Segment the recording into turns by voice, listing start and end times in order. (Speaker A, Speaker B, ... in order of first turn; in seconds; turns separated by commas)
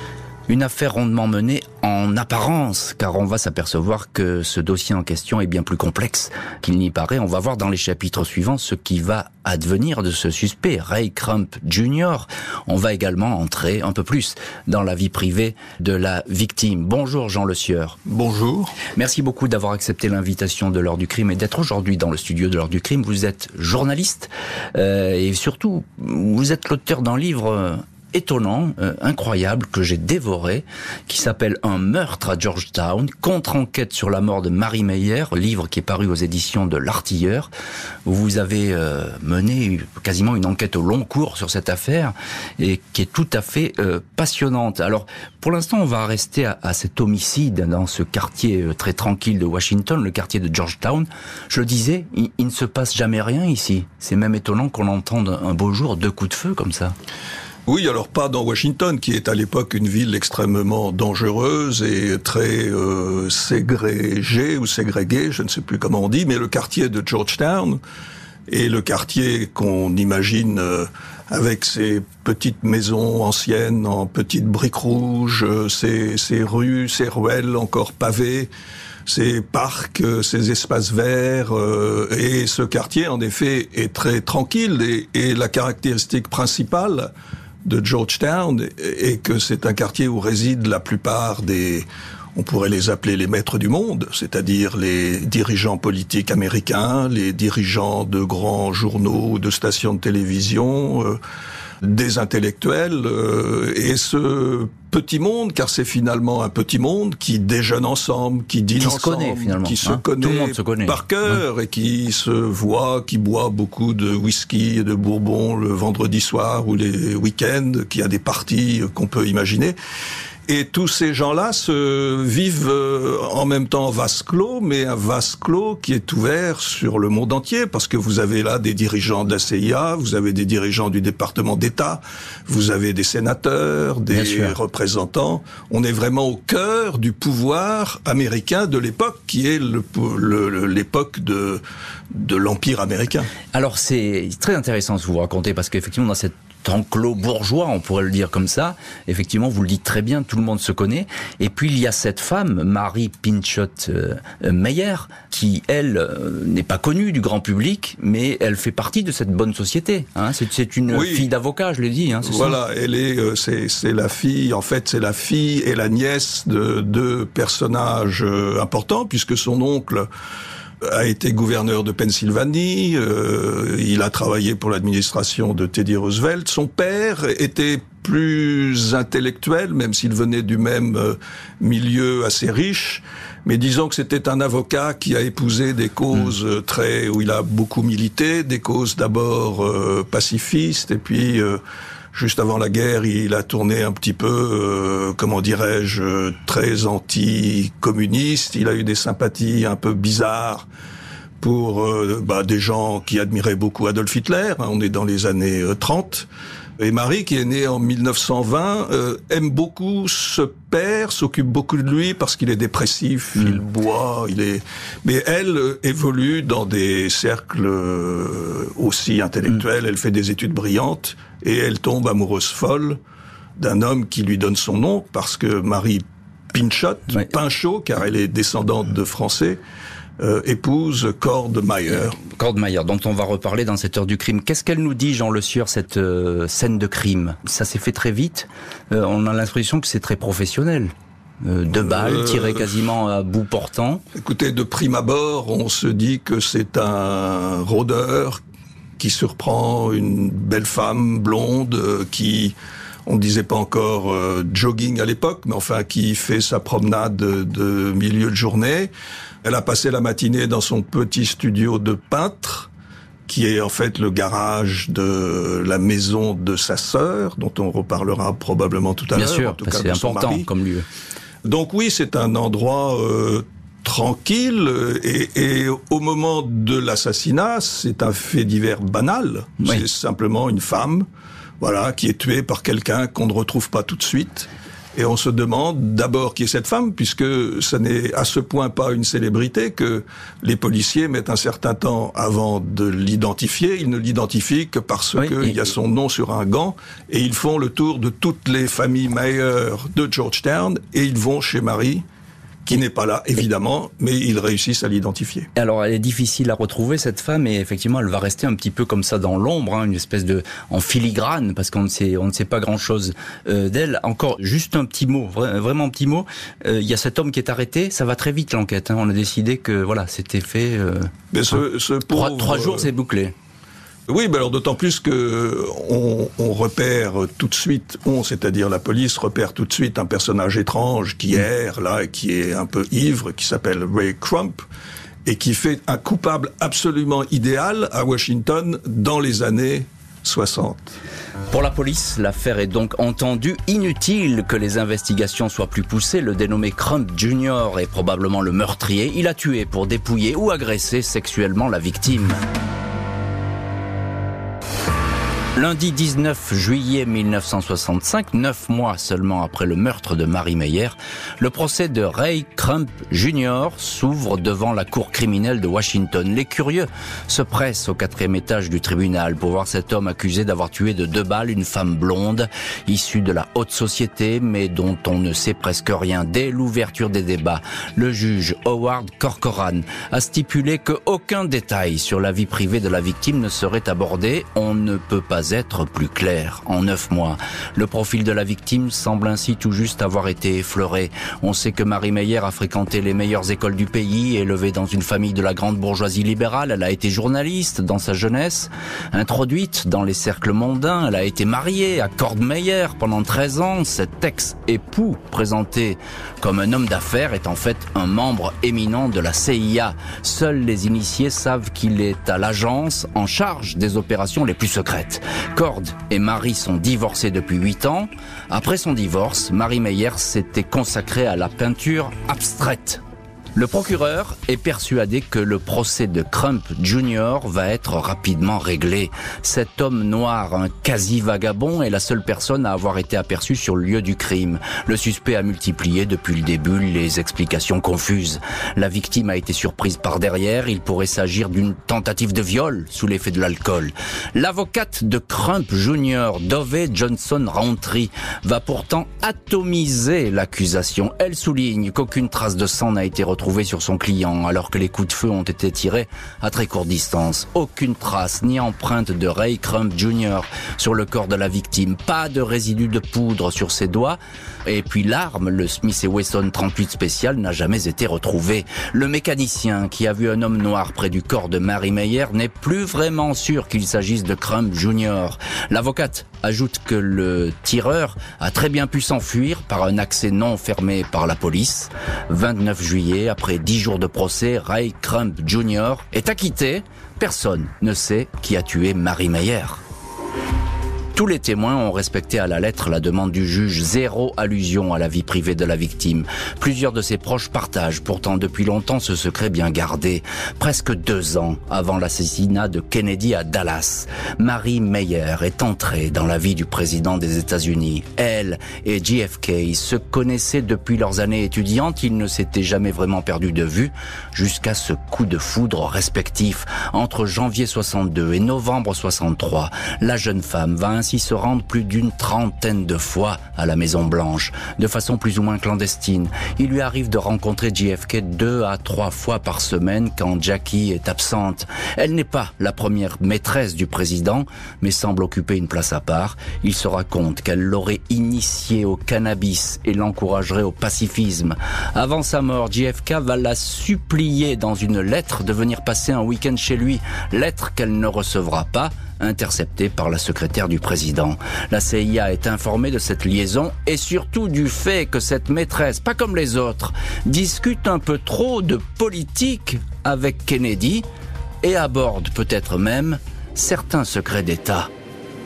Speaker A: 0.5-18.0, Speaker B: 18.1-18.8, Speaker A: 18.9-37.5, Speaker A: 38.0-57.0, Speaker B: 57.7-67.8, Speaker B: 68.5-78.5, Speaker B: 79.1-87.1, Speaker B: 87.7-101.2, Speaker B: 101.8-119.8, Speaker A: 108.8-111.4, Speaker B: 120.5-141.6, Speaker A: 134.1-134.6, Speaker B: 142.1-143.3, Speaker A: 143.5-162.6, Speaker B: 160.9-161.3, Speaker B: 162.2-170.1, Speaker B: 170.8-191.6, Speaker B: 192.1-200.7, Speaker B: 201.4-206.3, Speaker B: 206.8-223.0, Speaker B: 223.6-229.6, Speaker B: 230.2-232.2, Speaker A: 231.9-244.0, Speaker B: 241.7-242.7, Speaker B: 244.2-248.4, Speaker B: 249.0-258.9, Speaker B: 259.4-262.7, Speaker B: 263.3-270.5, Speaker A: 269.1-270.9, Speaker B: 271.4-281.1, Speaker B: 281.6-302.0, Speaker A: 295.2-295.6, Speaker B: 302.6-305.5, Speaker A: 305.6-321.6, Speaker B: 321.3-322.9, Speaker A: 322.1-323.3, Speaker B: 324.1-334.6, Speaker B: 335.2-340.9, Speaker A: 341.5-352.4, Speaker A: 355.6-423.0, Speaker A: 423.6-489.8, Speaker A: 491.1-561.0, Speaker A: 561.6-564.9